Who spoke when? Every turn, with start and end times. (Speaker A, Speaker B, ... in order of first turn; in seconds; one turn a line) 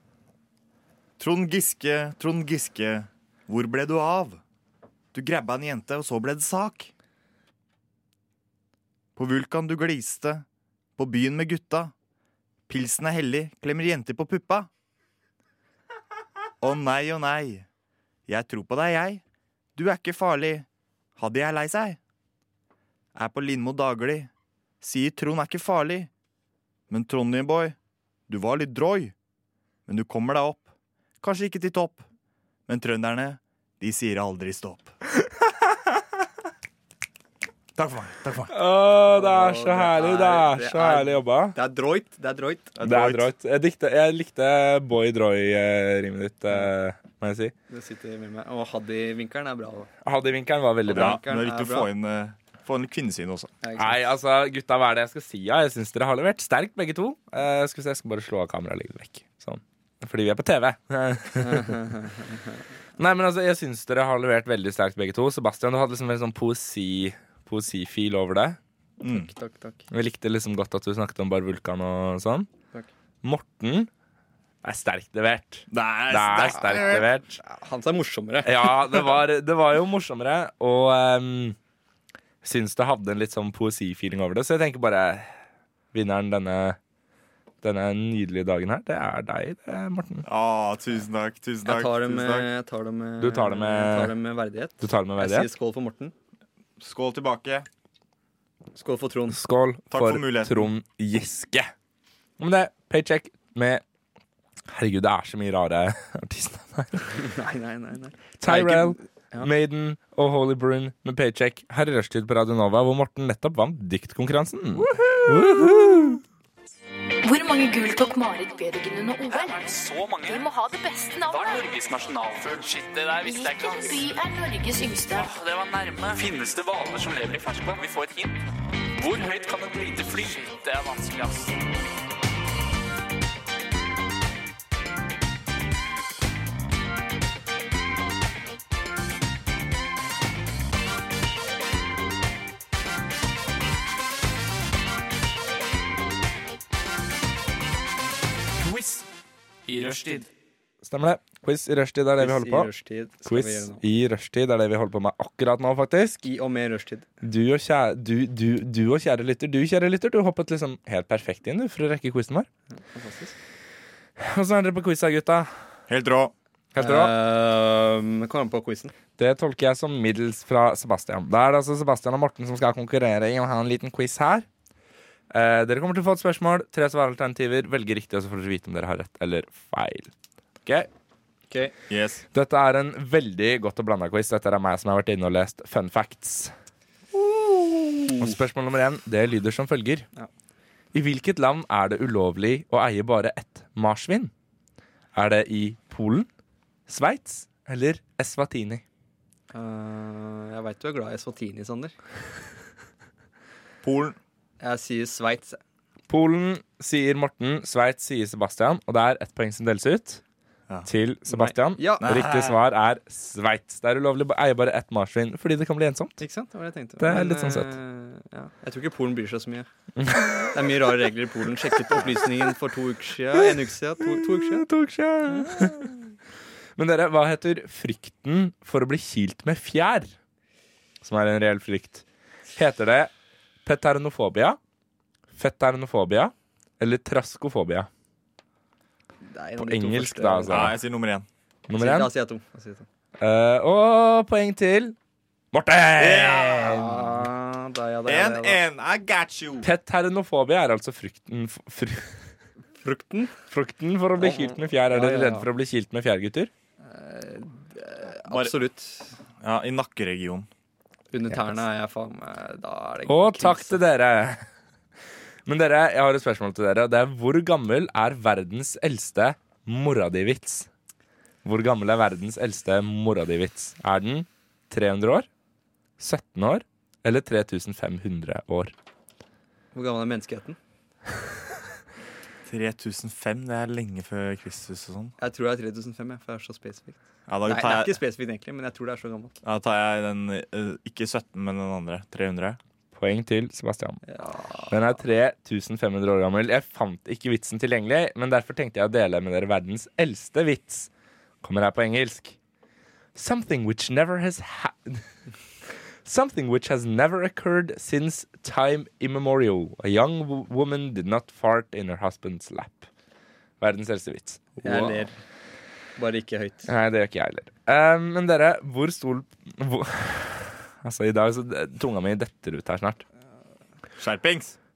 Speaker A: 1.2-4.4
Speaker A: 5.1-6.9
Speaker A: 9.2-10.4
Speaker A: 11.0-11.9
Speaker A: 12.7-14.7
Speaker A: 16.6-17.7
Speaker A: 18.3-19.2
Speaker A: 19.8-22.0
Speaker A: 23.1-26.1
Speaker A: 26.9-27.8
Speaker A: 28.3-29.1
Speaker A: 29.9-30.7
Speaker A: 31.2-32.0
Speaker A: 32.7-34.9
Speaker A: 37.8-38.5
Speaker B: 38.5-41.6
Speaker C: 39.1-42.8
Speaker A: 42.8-43.3
Speaker B: 42.8-47.5
Speaker C: 47.7-49.9
Speaker B: 50.0-51.2
Speaker C: 50.9-51.9
Speaker A: 50.9-53.5
Speaker C: 53.6-54.0
Speaker B: 53.8-61.8
Speaker C: 61.4-62.6
Speaker B: 63.0-68.6
Speaker A: 69.0-69.3
Speaker C: 69.1-69.9
Speaker B: 69.9-72.5
Speaker B: 73.2-73.9
Speaker B: 74.6-77.4
Speaker A: 75.7-77.1
Speaker C: 77.4-79.1
Speaker B: 78.4-81.6
Speaker B: 82.4-85.3
Speaker B: 85.9-86.8
Speaker B: 87.6-90.2
Speaker A: 90.2-92.5
Speaker C: 91.7-96.1
Speaker B: 93.2-94.1
Speaker B: 94.8-95.5
Speaker A: 96.8-97.7
Speaker C: 98.8-99.4
Speaker B: 99.3-101.7
Speaker A: 99.9-100.7
Speaker B: 102.4-103.8
Speaker B: 104.7-107.2
Speaker C: 107.1-109.5
Speaker B: 108.4-116.2
Speaker D: 117.2-119.6
Speaker E: 119.3-120.5
Speaker D: 120.2-121.7
Speaker E: 121.2-124.1
Speaker D: 123.2-125.3
Speaker E: 125.1-128.4
Speaker E: 128.9-131.6
Speaker E: 148.6-149.1
Speaker E: 149.7-150.3
Speaker B: 150.8-152.7
Speaker C: 152.2-153.8
Speaker B: 153.3-156.2
Speaker C: 156.2-157.1
Speaker B: 157.2-162.5
Speaker C: 162.7-163.4
Speaker B: 164.2-165.5
Speaker A: 165.9-166.3
Speaker B: 166.7-167.1
Speaker C: 166.8-168.9
Speaker B: 169.2-174.5
Speaker B: 175.3-180.1
Speaker A: 181.9-182.2
Speaker B: 182.3-186.5
Speaker C: 187.1-188.3
Speaker B: 188.2-190.1
Speaker B: 190.9-194.3
Speaker B: 195.2-196.3
Speaker B: 196.9-198.8
Speaker C: 199.5-201.9
Speaker A: 203.8-204.2
Speaker C: 204.6-205.6
Speaker B: 206.1-210.2
Speaker B: 210.8-216.2
Speaker C: 211.3-212.1
Speaker A: 212.0-212.6
Speaker C: 216.2-219.7
Speaker B: 217.0-217.7
Speaker B: 220.0-220.5
Speaker C: 220.5-224.7
Speaker B: 224.0-225.9
Speaker C: 225.3-225.9
Speaker B: 226.8-230.1
Speaker B: 231.0-232.0
Speaker B: 232.6-233.1
Speaker B: 233.7-234.6
Speaker B: 235.3-237.9
Speaker C: 239.2-240.7
Speaker B: 239.6-240.8
Speaker A: 240.5-241.3
Speaker B: 241.7-242.1
Speaker C: 241.8-242.9
Speaker B: 243.2-245.0
Speaker B: 245.5-247.2
Speaker A: 246.0-246.9
Speaker C: 246.5-248.6
Speaker A: 248.1-249.7
Speaker B: 249.6-252.2
Speaker C: 252.8-253.3
Speaker B: 253.5-256.5
Speaker C: 254.2-255.5
Speaker C: 256.8-259.1
Speaker A: 258.3-258.6
Speaker A: 259.4-260.5
Speaker C: 261.1-263.8
Speaker B: 263.1-264.4
Speaker B: 265.5-270.7
Speaker B: 271.4-275.3
Speaker B: 276.0-278.7
Speaker C: 279.7-280.6
Speaker A: 282.5-285.1
Speaker C: 285.2-289.4
Speaker A: 287.3-288.0
Speaker A: 289.4-292.6
Speaker B: 292.9-294.0
Speaker C: 294.1-294.8
Speaker B: 294.7-300.9
Speaker B: 301.4-302.4
Speaker B: 303.1-305.1
Speaker B: 306.1-312.9
Speaker B: 313.6-315.0
Speaker C: 314.6-315.1
Speaker C: 316.0-316.7
Speaker B: 316.7-323.0
Speaker A: 324.0-324.6